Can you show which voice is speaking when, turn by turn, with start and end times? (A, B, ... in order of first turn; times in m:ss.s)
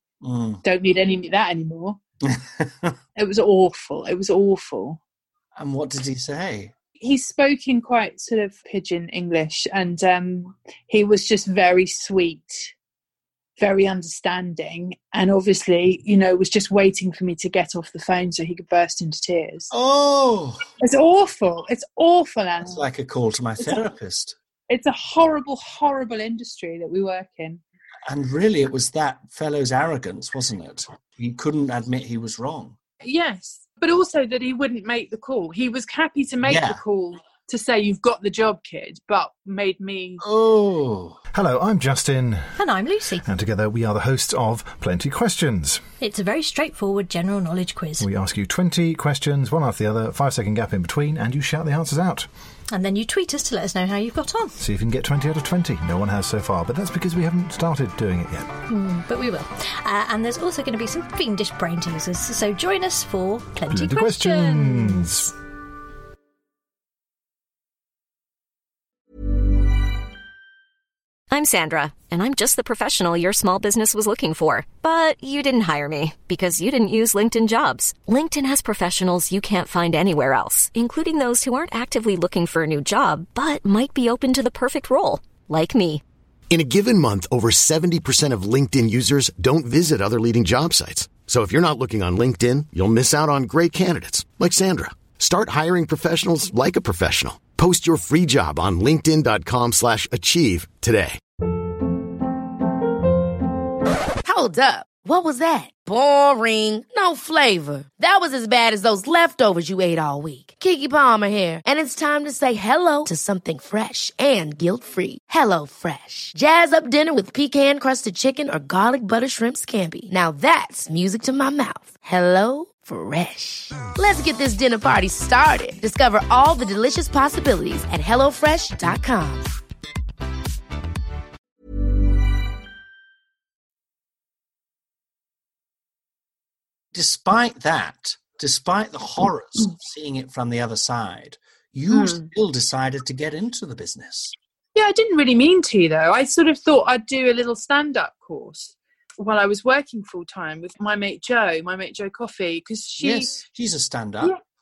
0:00.2-0:00.6 A
0:00.6-0:02.0 B
0:02.2-0:03.0 A
0:03.2-0:05.0 B
0:05.6-0:06.7 A
0:07.0-0:12.7 B
0:13.6-0:19.7 B
0:19.7-0:20.7 A
0:20.8-0:22.8 B
0:22.6-0:24.4 A
0:24.7-0:27.6 B
0:28.1-0:32.8 A
0:33.0-0:40.2 B
0:36.4-0:36.8 A
0:40.2-0:41.2 A
0:41.3-0:42.5 C
0:42.6-0:43.3 D
0:43.2-0:45.8 C
0:46.0-0:48.1 D
0:48.0-0:52.3 C
0:52.7-0:54.6 D
0:54.6-0:58.5 C
0:58.7-1:05.3 D
1:03.7-1:05.3 C
1:11.3-1:26.0 E
1:26.5-1:41.2 F
1:44.2-2:09.5 G
2:16.9-2:24.4 A
2:21.9-2:22.3 B
2:24.8-2:33.4 B
2:33.0-2:34.3 A